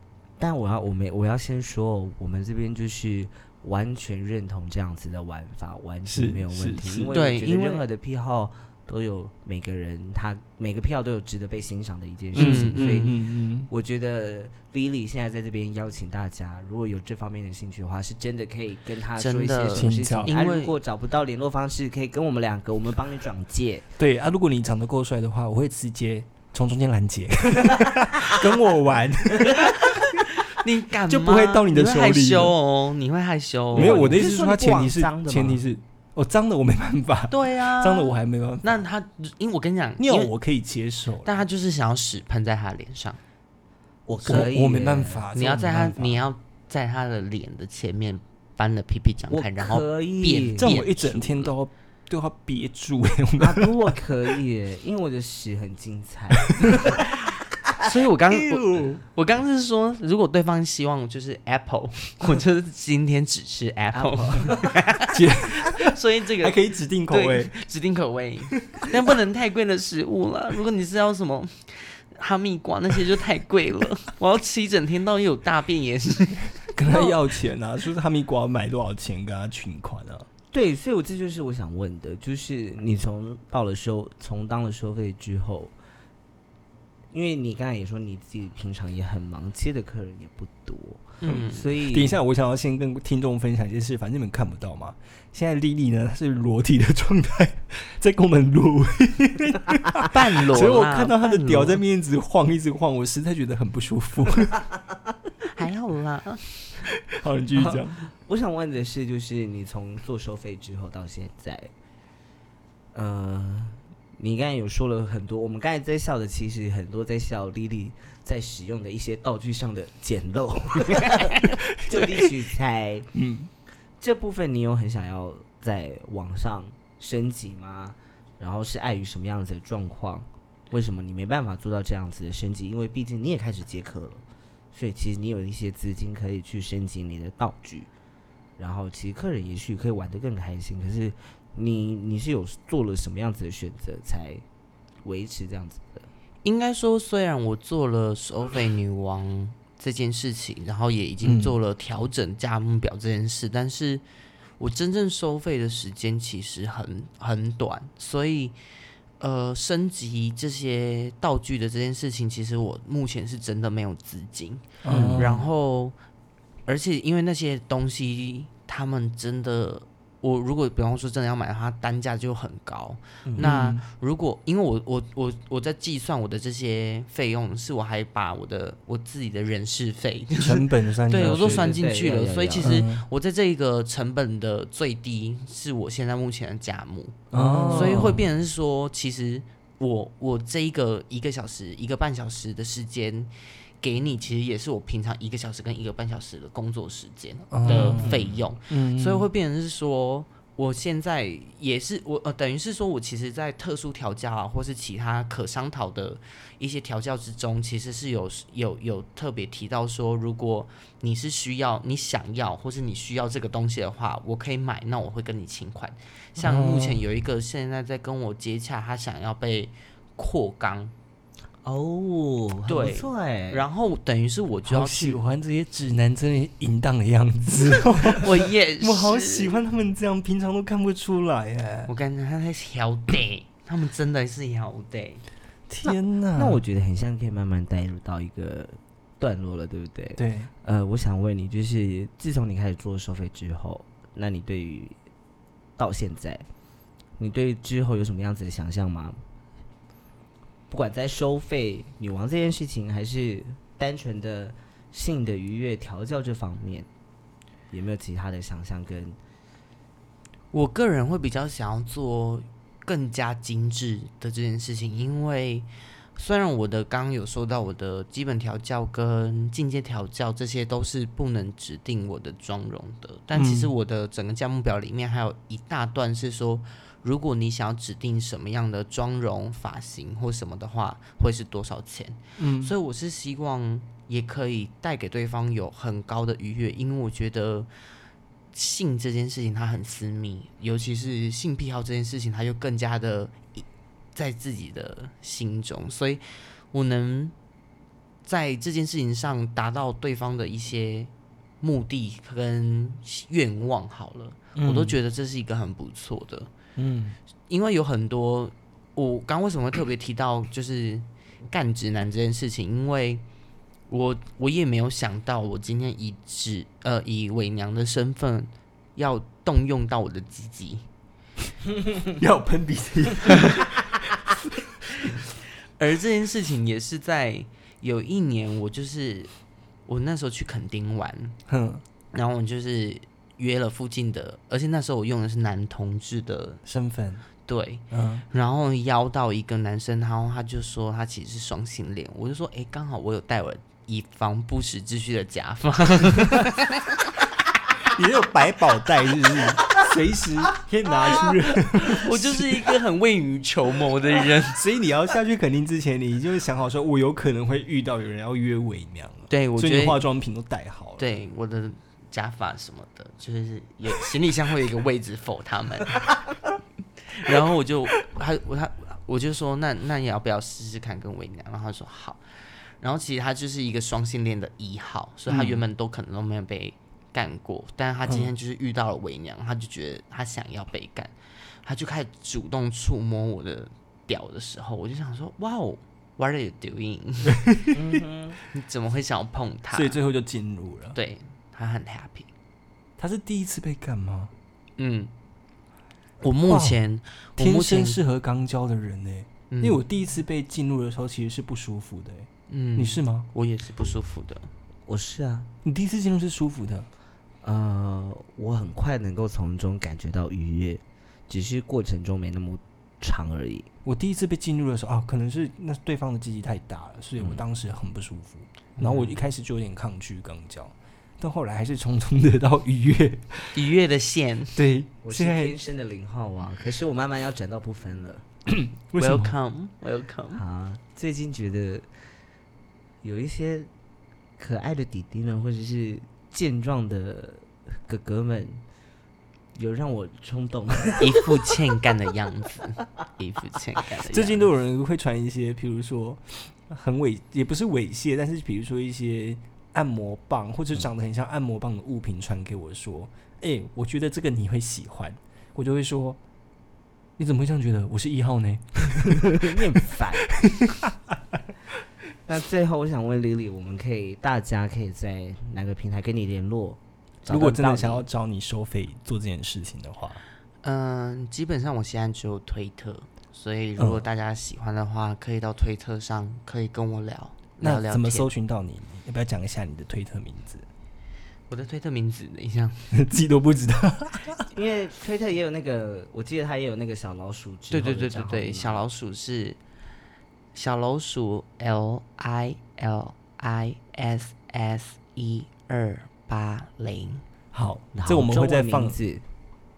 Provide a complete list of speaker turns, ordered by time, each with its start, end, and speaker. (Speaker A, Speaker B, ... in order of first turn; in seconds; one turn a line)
Speaker A: 0.4-23.9
Speaker B: 6.1-7.1
Speaker C: 7.1-7.8
Speaker C: 12.3-13.1
Speaker B: 12.3-13.7
Speaker C: 19.2-20.8
Speaker B: 19.7-20.3
Speaker B: 24.0-30.2
Speaker C: 29.6-34.2
Speaker B: 31.1-32.5
Speaker A: 33.7-35.6
Speaker B: 33.7-38.9
Speaker C: 37.3-40.3
Speaker B: 40.0-41.3
Speaker C: 41.2-43.2
Speaker A: 44.1-45.3
Speaker B: 44.2-46.2
Speaker C: 45.3-51.5
Speaker A: 49.3-50.8
Speaker B: 50.6-54.3
Speaker A: 53.4-57.1
Speaker B: 56.6-57.0
Speaker C: 57.8-77.1
Speaker B: 58.3-59.0
Speaker A: 63.9-64.8
Speaker B: 65.1-67.5
Speaker B: 76.7-80.3
Speaker A: 80.5-85.7
Speaker A: 87.1-92.2
Speaker C: 91.2-91.7
Speaker B: 91.3-104.6
Speaker C: 100.0-101.8
Speaker C: 105.5-106.5
Speaker B: 107.1-108.0
Speaker A: 107.6-111.7
Speaker A: 112.9-123.1
Speaker B: 123.1-123.5
Speaker A: 124.0-137.9
Speaker A: 138.6-144.4
Speaker A: 145.0-146.1
Speaker C: 146.4-154.0
Speaker B: 151.2-151.6
Speaker C: 154.6-158.6
Speaker C: 159.2-165.9
Speaker B: 164.8-165.5
Speaker A: 164.9-165.3
Speaker C: 166.7-220.9
Speaker A: 173.2-173.5
Speaker B: 173.4-173.8
Speaker B: 180.4-181.8
Speaker A: 181.2-182.8
Speaker B: 182.6-183.1
Speaker B: 187.3-188.2
Speaker A: 187.3-188.2
Speaker B: 197.5-199.3
Speaker A: 197.7-198.4
Speaker B: 216.4-217.0
Speaker A: 221.6-223.7
Speaker C: 222.7-225.2
Speaker B: 224.7-231.9
Speaker C: 228.2-229.6
Speaker C: 231.9-235.2
Speaker B: 235.7-236.6
Speaker A: 235.8-245.0
Speaker B: 240.2-240.5
Speaker A: 245.8-246.5
Speaker A: 247.2-249.2
Speaker A: 250.7-256.9
Speaker A: 257.7-259.2
Speaker C: 260.5-287.7
Speaker B: 273.3-273.7
Speaker B: 282.4-282.7
Speaker C: 288.5-297.3
Speaker C: 298.2-306.5
Speaker B: 304.6-305.0
Speaker B: 306.8-307.2
Speaker C: 307.5-313.2
Speaker C: 313.9-320.9
Speaker B: 322.0-324.1
Speaker C: 325.8-329.3
Speaker C: 329.9-331.4
Speaker B: 331.5-331.8
Speaker C: 332.1-336.6
Speaker B: 336.6-337.3
Speaker C: 337.5-347.0
Speaker B: 337.9-338.2
Speaker B: 347.8-352.5
Speaker C: 351.8-354.6
Speaker B: 354.5-361.1
Speaker C: 359.3-360.0
Speaker C: 361.0-366.1
Speaker C: 367.1-372.2
Speaker C: 372.8-381.1
Speaker B: 375.3-375.6
Speaker C: 381.6-387.6
Speaker B: 387.3-387.7
Speaker A: 387.7-388.4
Speaker C: 388.4-390.0
Speaker B: 389.7-391.0
Speaker C: 390.9-392.3
Speaker B: 393.0-394.3
Speaker C: 394.8-395.1
Speaker C: 396.2-398.0
Speaker B: 396.4-396.8
Speaker B: 397.4-403.3
Speaker C: 399.5-399.8
Speaker C: 402.5-404.5
Speaker A: 404.9-405.5
Speaker B: 405.6-406.9
Speaker A: 407.4-413.7
Speaker B: 413.9-423.6
Speaker C: 418.8-419.1
Speaker C: 423.5-424.6
Speaker B: 424.6-425.6
Speaker A: 425.0-428.2
Speaker B: 428.5-429.3
Speaker C: 429.0-430.4
Speaker A: 430.4-431.9
Speaker A: 433.0-433.7
Speaker A: 434.4-438.6
Speaker A: 439.6-441.5
Speaker C: 441.0-444.5
Speaker B: 444.1-456.2
Speaker B: 457.2-459.8
Speaker A: 459.1-460.3
Speaker B: 460.3-460.9
Speaker A: 462.3-468.1
Speaker B: 467.3-470.2
Speaker C: 470.6-478.3
Speaker B: 477.6-480.7
Speaker C: 481.5-483.0
Speaker B: 482.9-484.5
Speaker A: 484.5-488.8
Speaker C: 487.7-489.6
Speaker C: 490.6-497.2
Speaker B: 497.5-499.0
Speaker A: 497.9-499.2